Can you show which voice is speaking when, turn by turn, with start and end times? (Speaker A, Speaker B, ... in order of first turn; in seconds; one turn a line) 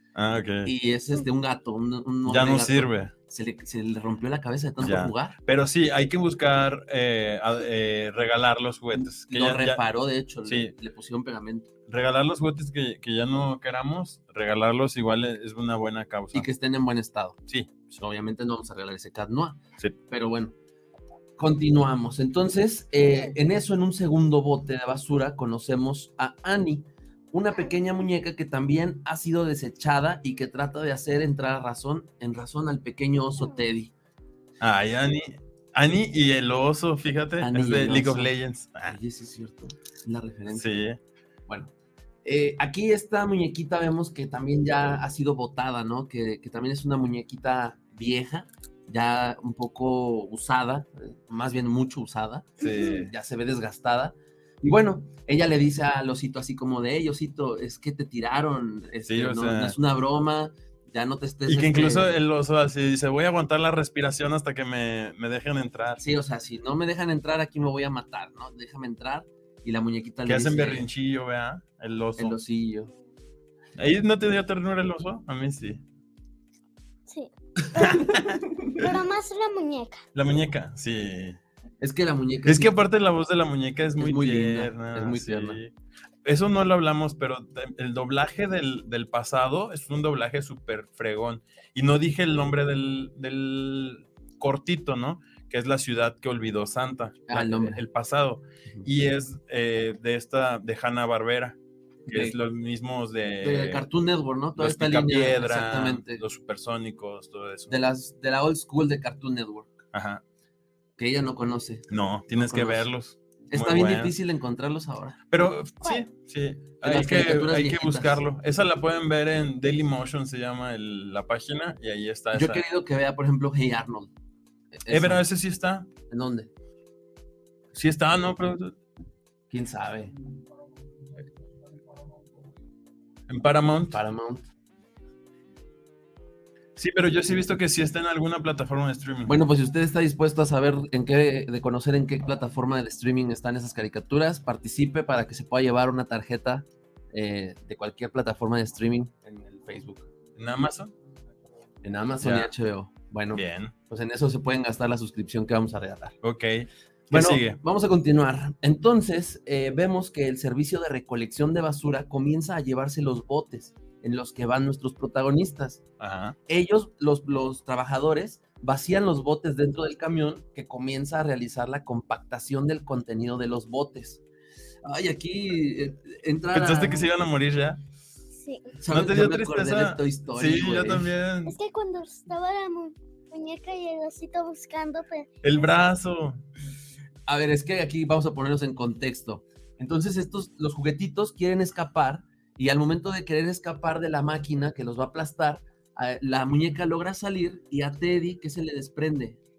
Speaker A: 0.1-0.7
Speaker B: 0.6-5.4
Speaker A: 2.3-3.1
Speaker A: 4.8-9.8
Speaker B: 8.9-11.7
Speaker A: 10.5-10.7
Speaker A: 11.9-16.5
Speaker B: 16.3-17.4
Speaker A: 17.5-17.8
Speaker B: 17.9-20.5
Speaker B: 21.4-33.9
Speaker A: 34.6-39.0
Speaker B: 37.4-40.7
Speaker A: 40.5-41.0
Speaker B: 42.2-62.2
Speaker A: 52.6-53.1
Speaker A: 59.1-59.8
Speaker A: 61.5-66.0
Speaker B: 66.0-70.9
Speaker A: 70.2-72.4
Speaker B: 72.2-72.9
Speaker A: 73.8-75.8
Speaker C: 77.1-78.0
Speaker B: 77.6-78.8
Speaker C: 78.8-80.0
Speaker A: 80.2-81.4
Speaker B: 81.8-82.8
Speaker A: 82.5-85.7
Speaker B: 84.0-85.6
Speaker A: 86.2-103.9
Speaker B: 97.3-97.8
Speaker B: 102.1-102.4
Speaker B: 103.4-106.2
Speaker A: 104.6-107.8
Speaker B: 107.7-109.8
Speaker A: 109.9-110.2
Speaker B: 111.0-112.9
Speaker A: 111.9-114.1
Speaker B: 113.5-115.2
Speaker A: 115.3-122.6
Speaker B: 116.8-118.2
Speaker B: 122.3-124.1
Speaker B: 124.7-125.2
Speaker A: 124.9-125.9
Speaker B: 126.1-126.5
Speaker A: 127.7-128.8
Speaker B: 129.5-130.1
Speaker A: 133.3-134.0
Speaker B: 133.9-134.5
Speaker A: 136.8-139.4
Speaker B: 139.3-150.1
Speaker A: 150.4-150.9
Speaker B: 151.8-156.2
Speaker A: 152.2-152.5
Speaker A: 153.3-153.7
Speaker A: 156.2-157.6
Speaker B: 157.1-165.8
Speaker A: 166.0-166.4
Speaker B: 166.5-174.2
Speaker B: 174.8-177.1
Speaker A: 176.5-177.8
Speaker C: 178.4-178.7
Speaker B: 178.8-181.1
Speaker A: 178.9-181.6
Speaker C: 181.5-185.3
Speaker A: 185.4-186.4
Speaker B: 187.3-199.4